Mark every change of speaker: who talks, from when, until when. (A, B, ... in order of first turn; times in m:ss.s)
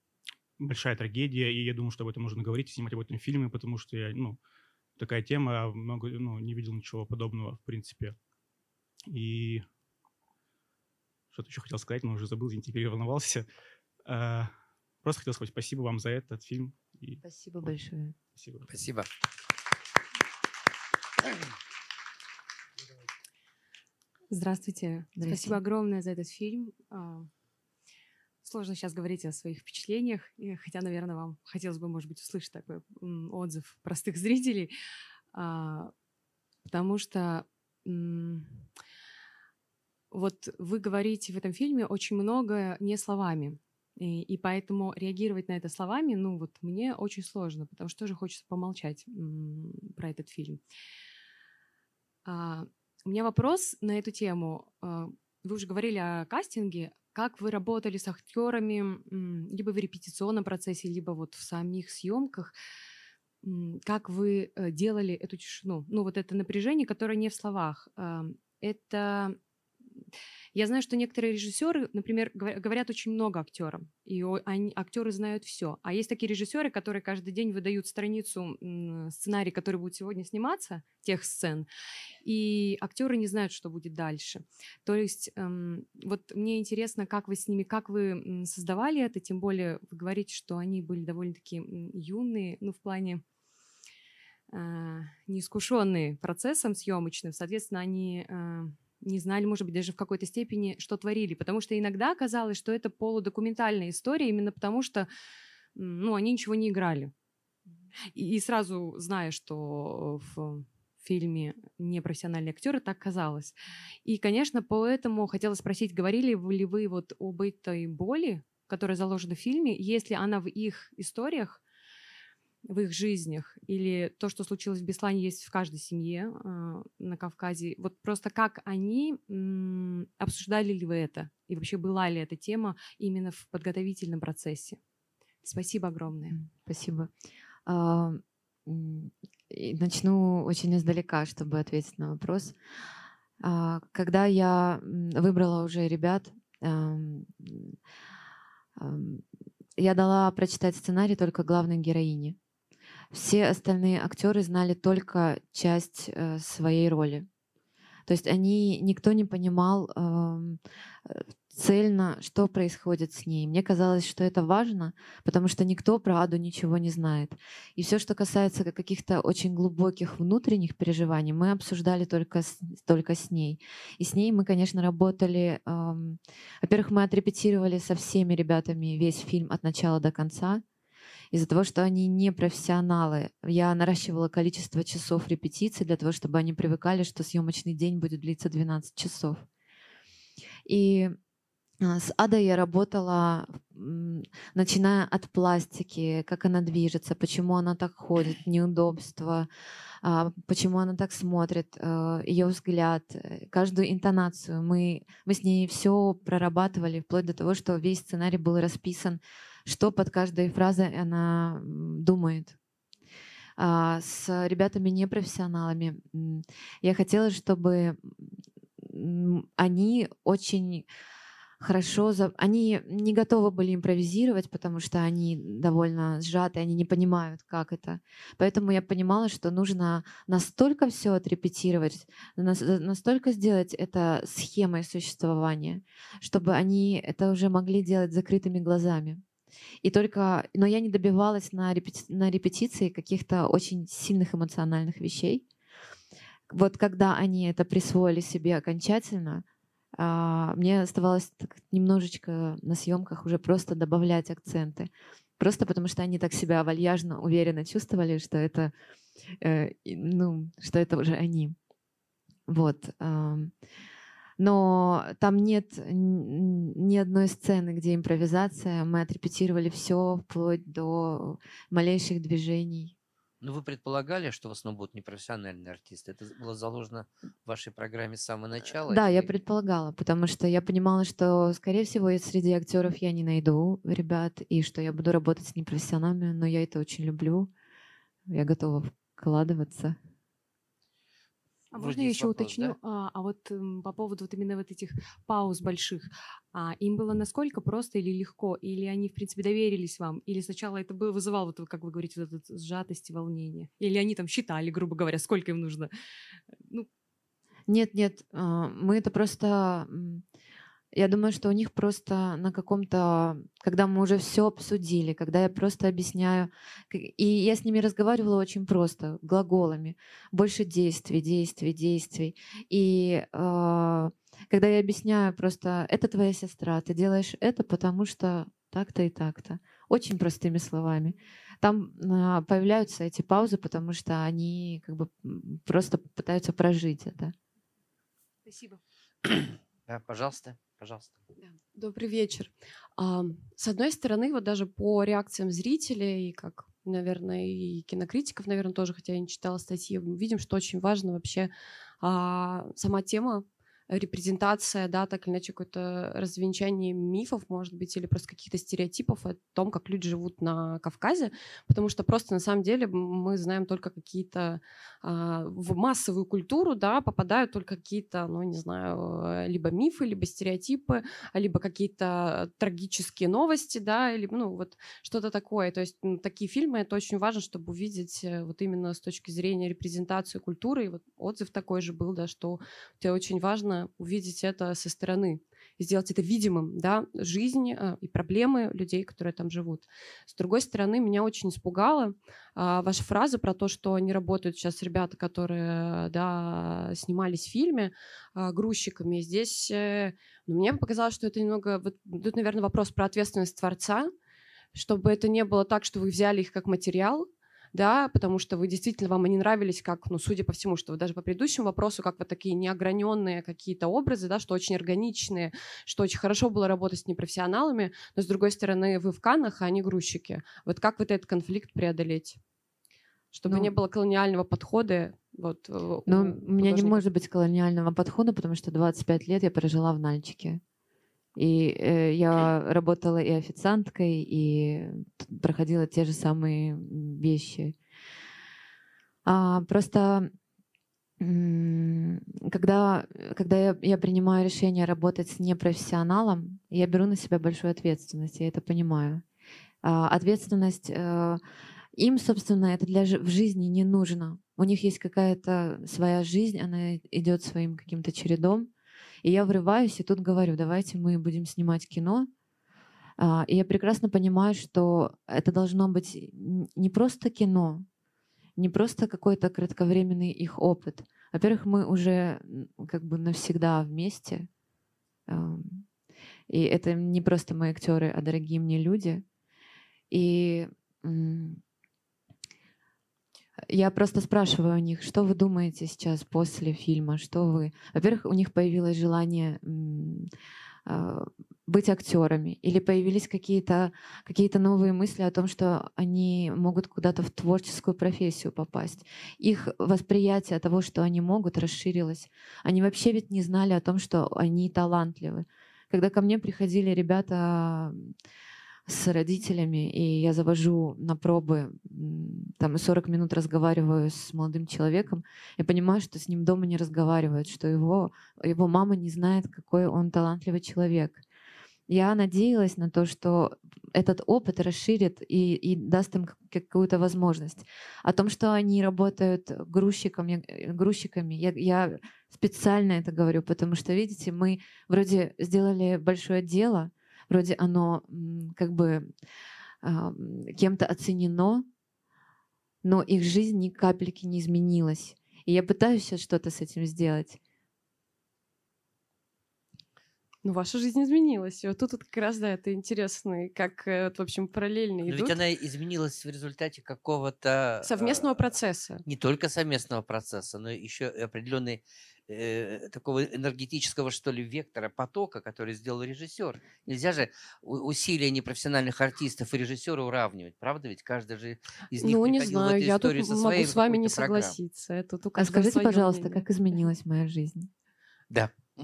0:00.6-0:04.4 A
0:05.0-0:08.2 A
0:09.1-0:09.7 A
0:11.3-0:13.5 A
0:14.1-0:17.7 A
0:17.2-0:18.2 B
0:18.3-0:18.7 A
0:18.7-0:19.1 C
0:24.3-0:27.3 D
0:25.2-0:25.6 B
0:28.4-0:34.7 D
0:35.3-0:35.9 D
0:36.7-0:38.7 D
0:40.1-0:50.6 D
0:52.3-1:02.5 D
1:03.4-1:09.4 D
1:10.5-1:21.7 D
1:22.2-1:33.2 D
1:34.5-1:45.1 D
1:45.8-1:47.1 D
1:48.2-2:01.6 D
2:02.6-2:14.8 D
2:15.4-2:16.4 D
2:16.3-2:17.1 B
2:17.7-2:22.6 B
2:23.4-2:27.8 B
2:28.8-2:29.2 B
2:29.8-2:32.4 B
2:33.1-2:37.3 B
2:38.1-3:00.6 B
3:01.3-3:09.4 B
3:10.7-3:11.2 B
3:11.8-3:19.5 B
3:20.0-3:32.6 B
3:33.6-3:40.9 B
3:41.6-3:59.2 B
3:59.8-4:05.4 B
4:06.5-4:09.4 B
4:10.0-4:18.7 B
4:19.4-4:21.6 B
4:22.5-4:23.5 B
4:24.4-4:32.9 B
4:33.4-4:39.4 C
4:38.9-4:47.5 B
4:48.3-4:50.0 B
4:51.7-5:05.9 D
4:51.8-4:52.8 C
5:06.6-5:06.9 D
5:07.7-5:10.2 B
5:10.9-5:37.3 B
5:38.4-5:38.8 E
5:39.3-5:41.2 C
5:41.4-6:44.1 E
6:44.7-7:02.4 E
7:03.3-7:07.1 E
7:03.5-7:03.7 B
7:06.1-7:10.6 B
7:11.4-7:17.8 B
7:19.2-7:20.3 B
7:21.2-7:29.2 B
7:29.8-7:31.4 B
7:32.0-7:38.7 B
7:39.2-7:42.3 B
7:43.2-7:47.9 B
7:48.6-7:54.5 B
7:55.3-7:55.9 B
7:56.5-7:59.2 B
8:00.1-8:01.6 B
8:03.7-8:10.3 B
8:10.9-8:28.1 B
8:28.9-8:41.2 B
8:41.9-8:59.1 B
8:59.8-9:01.7 B
9:02.8-9:07.4 B
9:10.4-9:15.4 E
9:15.0-9:18.4 C
9:17.8-9:19.0 E
9:19.0-9:34.6 C
9:32.0-9:36.5 E
9:35.4-9:37.7 B
9:38.3-9:38.6 C